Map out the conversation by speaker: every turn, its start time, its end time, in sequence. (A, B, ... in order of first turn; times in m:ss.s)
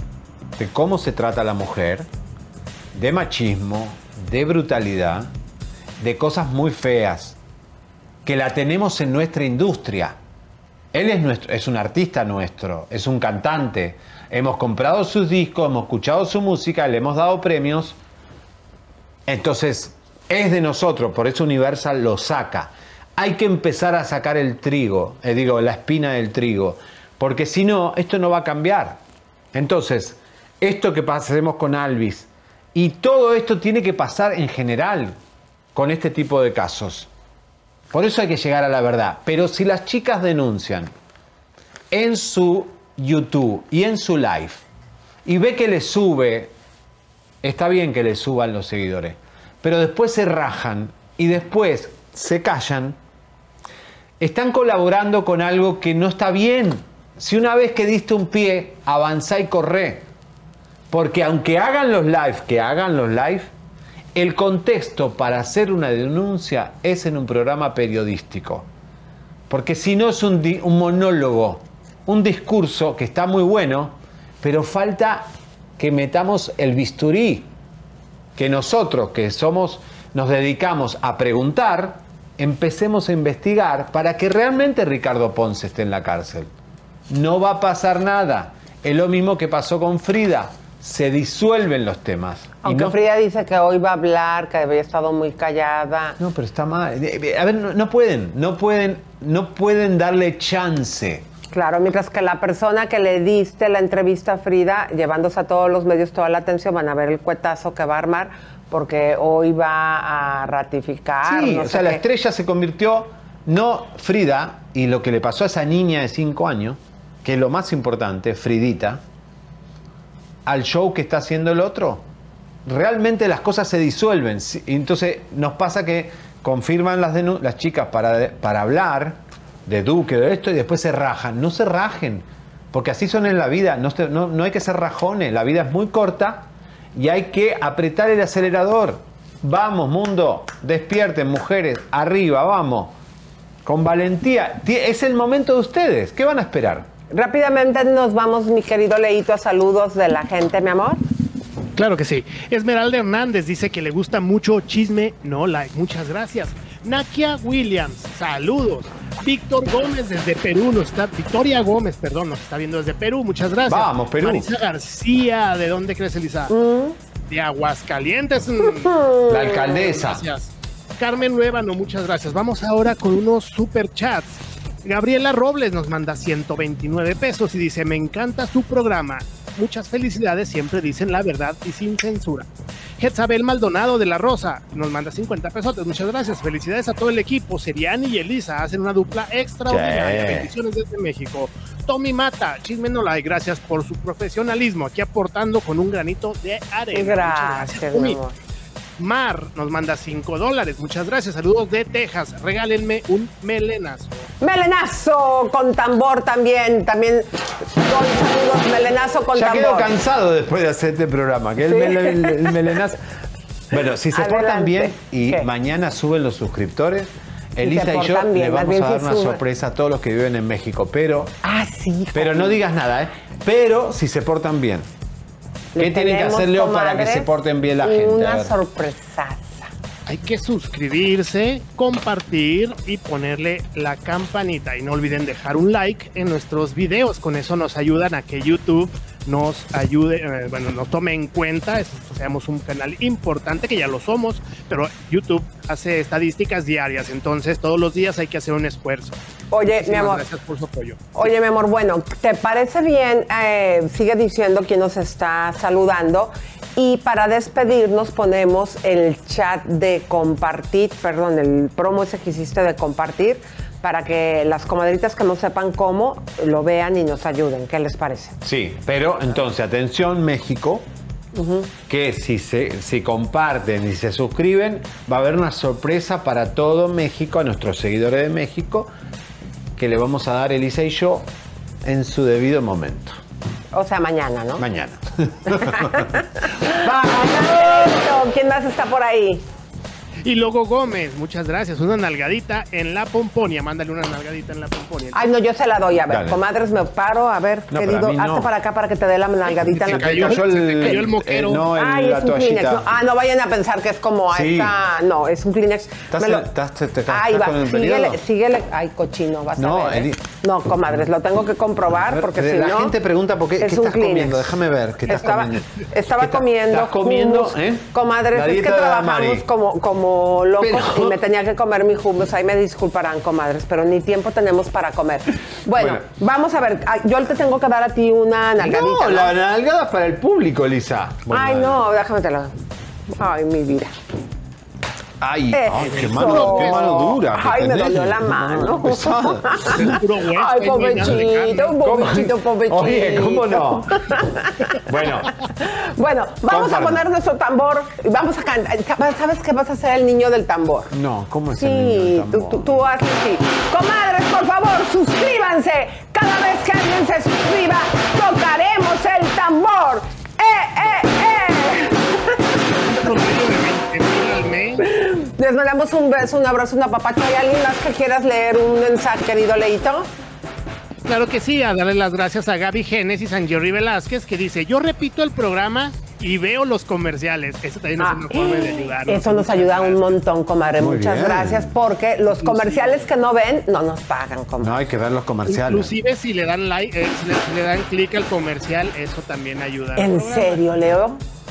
0:00.6-0:02.1 A
0:02.9-0:05.3 A
0:06.0-0:07.4 A
0:08.2-0:10.2 A
0:10.9-0:18.0 A
0:19.3-0:29.0 A
0:29.5-0:35.2 A
0:35.7-0:37.1 A
0:37.9-0:40.9 A
0:41.9-0:44.6 A
0:45.2-0:46.5 A
0:47.4-0:53.0 A
0:54.2-1:00.0 A
1:00.9-1:03.5 A
1:04.1-1:08.7 A
1:09.5-1:15.3 A
1:15.8-1:17.5 A
1:18.4-1:26.5 A
1:27.1-1:32.9 A
1:32.6-1:36.2 B
1:36.2-1:41.2 A
1:41.5-1:52.0 B
1:51.2-1:59.0 A
2:00.4-2:02.0 A
2:02.6-2:22.9 A
2:23.6-2:26.9 A
2:27.1-2:31.0 B
2:31.8-2:46.5 C
2:43.7-2:44.5 A
2:46.5-2:47.0 B
2:47.3-2:49.0 C
2:48.9-2:49.9 B
2:49.3-2:50.2 A
2:49.9-3:02.5 C
3:03.0-3:18.2 C
3:09.6-3:10.5 A
3:16.9-3:18.3 B
3:19.0-3:24.3 C
3:24.4-3:29.9 B
3:29.3-3:33.0 A
3:31.7-3:32.6 B
3:33.7-3:41.3 A
3:34.1-3:35.5 B
3:37.6-3:39.4 B
3:41.4-3:42.6 B
3:42.1-3:44.9 A
3:45.7-3:47.3 B
3:45.8-3:48.5 A
3:47.8-3:49.7 B
3:50.0-4:09.2 C
4:09.5-4:10.2 B
4:09.8-4:11.1 C
4:11.1-4:28.4 B
4:28.4-4:30.8 A
4:31.3-4:31.7 B
4:31.9-4:38.9 A
4:39.8-4:41.3 A
4:41.8-4:43.2 A
4:43.7-4:44.6 B
4:44.6-4:48.0 A
4:45.6-4:49.4 B
4:50.2-4:55.2 C
4:55.1-5:00.4 B
4:56.1-4:56.4 A
4:57.7-4:58.5 A
4:59.7-5:02.8 A
4:59.8-5:01.6 C
5:01.7-5:06.5 B
5:04.3-5:04.7 A
5:06.1-5:08.2 A
5:07.1-5:12.9 B
5:09.6-5:10.2 A
5:11.9-5:19.5 A
5:13.6-5:29.3 B
5:20.6-5:21.2 A
5:25.7-5:26.0 A
5:28.6-5:31.8 A
5:31.3-5:32.5 B
5:33.1-5:33.9 B
5:35.2-5:40.0 A
5:35.5-5:50.9 B
5:36.0-5:36.9 C
5:39.7-5:41.7 C
5:41.8-5:44.0 A
5:44.8-5:45.3 A
5:46.5-5:47.0 A
5:50.9-5:52.8 A
5:51.5-6:02.4 B
6:02.8-6:04.8 C
6:04.9-6:10.1 B
6:11.0-6:20.2 C
6:18.0-6:24.8 B
6:20.7-6:21.7 A
6:22.4-6:23.0 C
6:24.6-6:25.9 A
6:25.5-6:30.6 C
6:30.0-6:31.2 B